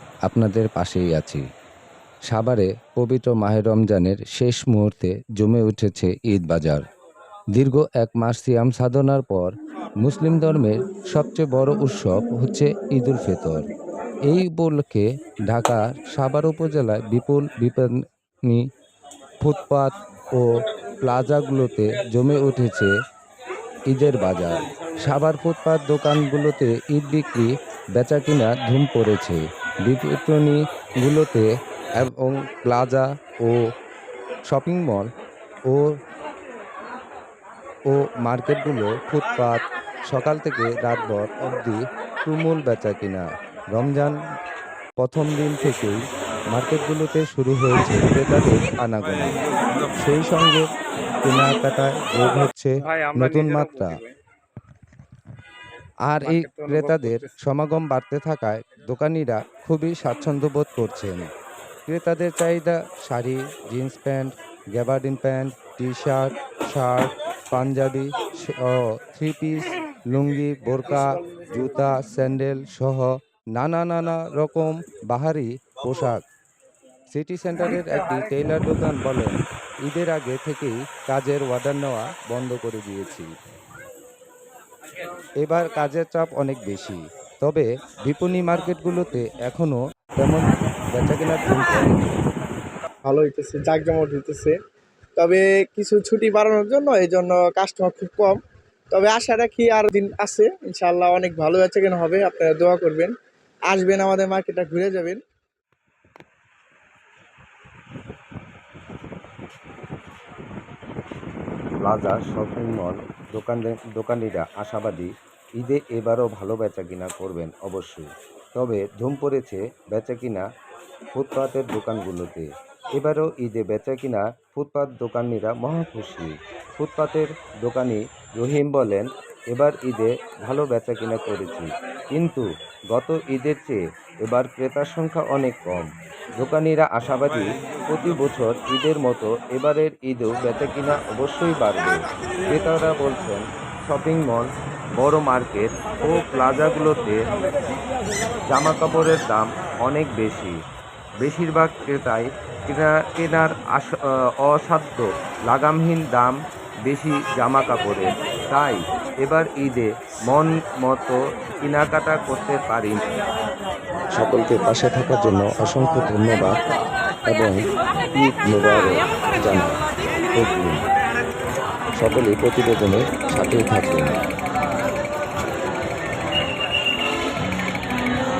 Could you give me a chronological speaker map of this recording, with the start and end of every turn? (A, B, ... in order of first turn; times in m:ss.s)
0:00.3-0:01.4 A
0:02.3-0:06.8 A
0:07.5-0:13.6 A
0:14.3-0:17.9 A
0:19.4-0:20.5 A
0:21.0-0:22.9 A
0:23.9-0:31.5 A
0:32.0-0:33.6 A
0:34.5-0:35.1 A
0:37.9-0:43.2 A
0:43.8-0:44.2 A
0:45.0-0:46.0 A
0:46.5-0:49.3 A
0:50.0-0:50.6 A
0:51.2-0:54.0 A
0:52.8-0:54.1 B
0:56.1-1:01.3 A
0:56.2-0:57.3 B
1:01.9-1:16.2 A
1:17.1-1:19.3 A
1:17.6-1:18.0 B
1:19.9-1:23.3 A
1:25.4-1:32.1 A
1:33.0-1:34.5 B
1:35.2-1:38.4 B
1:38.9-1:43.1 B
1:43.7-1:45.2 B
1:51.8-2:00.4 A
2:01.1-2:15.9 A
2:16.4-2:27.2 A
2:28.5-2:30.6 A
2:31.2-2:36.4 A
2:36.9-2:43.0 A
2:44.2-2:46.5 A
2:47.3-2:47.6 A
2:48.1-2:49.8 A
2:50.4-2:50.8 A
2:52.0-2:54.2 A